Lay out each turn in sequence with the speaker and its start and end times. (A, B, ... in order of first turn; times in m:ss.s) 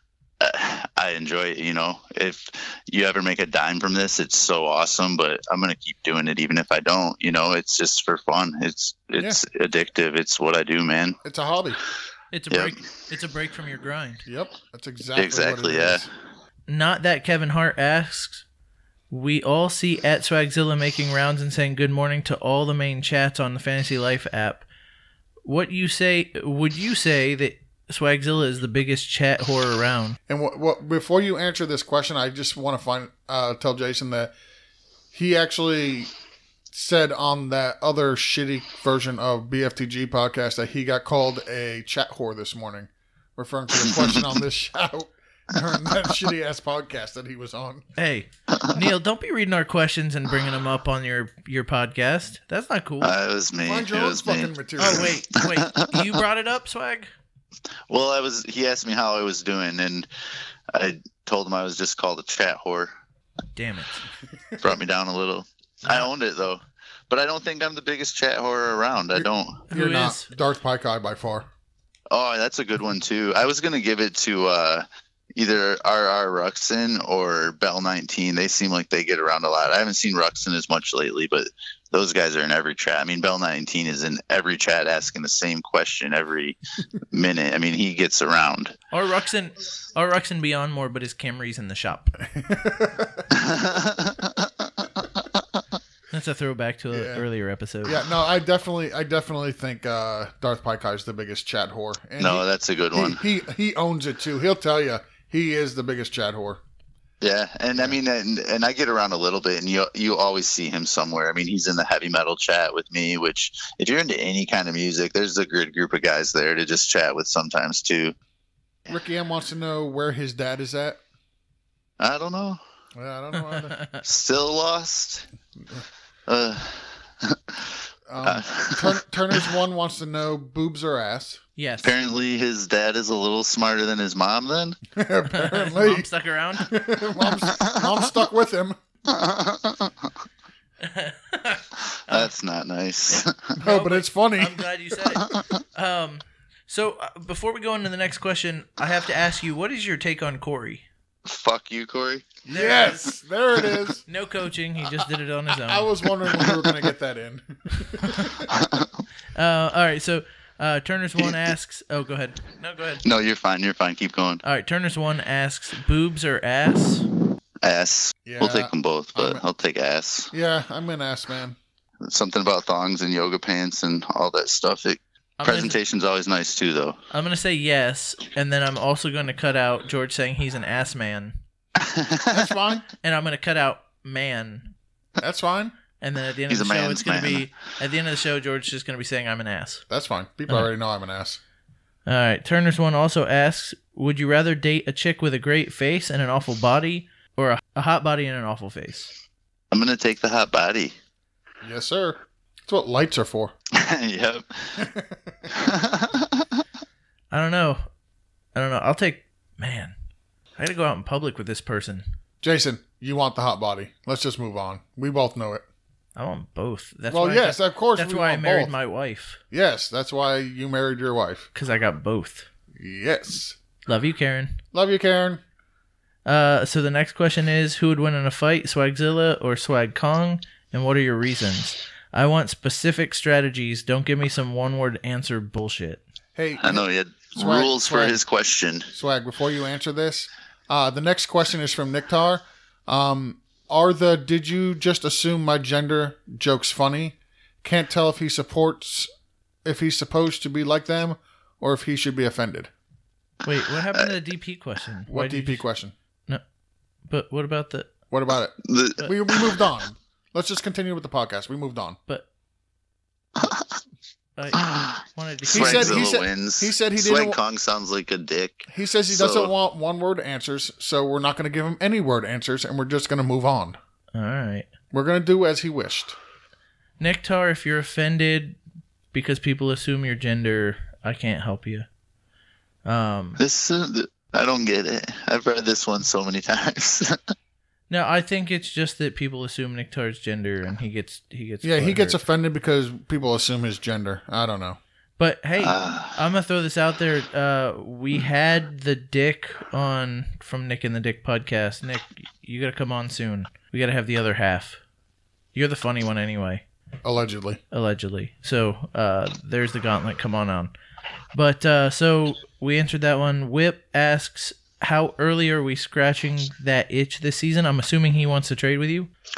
0:00.4-0:11.2 A
0:11.2-0:11.8 B
0:12.3-0:14.2 C
0:14.2-0:16.1 B
0:15.2-0:16.1 A
0:16.7-0:18.4 C
0:19.1-0:24.6 C
0:25.4-0:30.2 C
0:30.3-0:34.3 B
0:35.1-0:36.1 B
0:36.7-0:47.8 B
0:43.9-0:44.2 A
0:48.0-0:53.1 C
0:53.0-0:56.0 A
0:53.6-0:55.1 B
0:54.8-0:57.1 C
0:57.9-1:00.1 A
1:00.7-1:02.9 A
1:03.6-1:04.0 C
1:04.6-1:09.6 A
1:09.1-1:11.5 B
1:09.7-1:10.3 C
1:12.1-1:14.8 A
1:15.4-1:26.6 A
1:27.1-1:28.7 A
1:28.9-1:32.2 C
1:32.2-1:33.7 B
1:33.3-1:34.5 A
1:36.1-1:38.0 C
1:36.9-1:37.2 B
1:37.8-1:46.6 B
1:42.2-1:43.2 A
1:47.2-1:58.1 A
1:58.9-2:01.0 B
2:02.0-2:02.6 A
2:02.9-2:03.8 B
2:03.4-2:04.0 C
2:04.0-2:05.2 A
2:06.3-2:09.4 A
2:08.1-2:11.4 B
2:11.6-2:12.0 C
2:11.8-2:14.8 A
2:14.9-2:16.1 B
2:15.3-2:16.8 C
2:16.6-2:18.8 B
2:17.4-2:18.0 A
2:19.1-2:19.9 A
2:20.8-2:22.3 C
2:22.1-2:23.6 A
2:23.6-2:24.7 B
2:23.6-2:30.8 C
2:25.2-2:25.4 A
2:31.2-2:32.3 A
2:32.4-2:34.0 B
2:32.5-2:33.2 C
2:34.0-2:35.9 C
2:35.6-2:38.5 B
2:36.3-2:36.7 A
2:38.0-2:38.4 C
2:38.5-2:38.9 A
2:39.3-2:43.0 C
2:43.0-2:44.4 A
2:44.4-2:47.1 C
2:47.6-2:50.3 A
2:48.2-2:49.4 B
2:50.3-2:51.6 B
2:52.0-2:57.0 A
2:55.4-2:55.8 C
2:57.1-3:01.4 C
3:01.8-3:02.5 A
3:02.3-3:02.9 B
3:03.0-3:04.7 C
3:05.2-3:05.7 B
3:06.0-3:09.8 C
3:06.5-3:07.5 A
3:09.9-3:11.4 B
3:12.0-3:19.1 C
3:19.7-3:20.9 A
3:21.6-3:23.5 B
3:23.7-3:24.8 A
3:24.8-3:25.5 B
3:25.5-3:26.4 A
3:27.3-3:27.8 C
3:28.5-3:29.9 C
3:30.6-3:32.0 C
3:32.4-3:35.6 B
3:36.2-3:39.4 C
3:37.1-3:38.7 B
3:39.5-3:41.5 B
3:41.5-3:42.5 C
3:42.7-3:43.6 B
3:43.9-3:44.6 C
3:44.7-3:45.4 B
3:46.2-3:56.0 C
3:56.3-3:58.2 B
3:56.6-3:58.9 A
3:58.9-4:09.1 B
4:09.6-4:12.7 B
4:13.4-4:15.6 C
4:15.1-4:15.9 B
4:17.1-4:17.9 C
4:18.1-4:22.0 B
4:18.6-4:19.7 A
4:23.4-4:23.6 A
4:24.4-4:26.1 C
4:24.6-4:29.5 A
4:25.5-4:27.4 B
4:28.7-4:33.8 B
4:34.1-4:34.7 C
4:34.9-4:36.2 B
4:37.0-4:38.6 C
4:39.1-4:41.9 C
4:42.8-4:43.4 C
4:43.4-4:47.2 A
4:47.9-4:52.2 C
4:51.6-4:54.8 B
4:55.2-5:04.8 C
4:55.6-4:56.2 A
5:05.5-5:06.6 C
5:07.0-5:07.6 B
5:07.7-5:10.7 C
5:11.3-5:19.1 C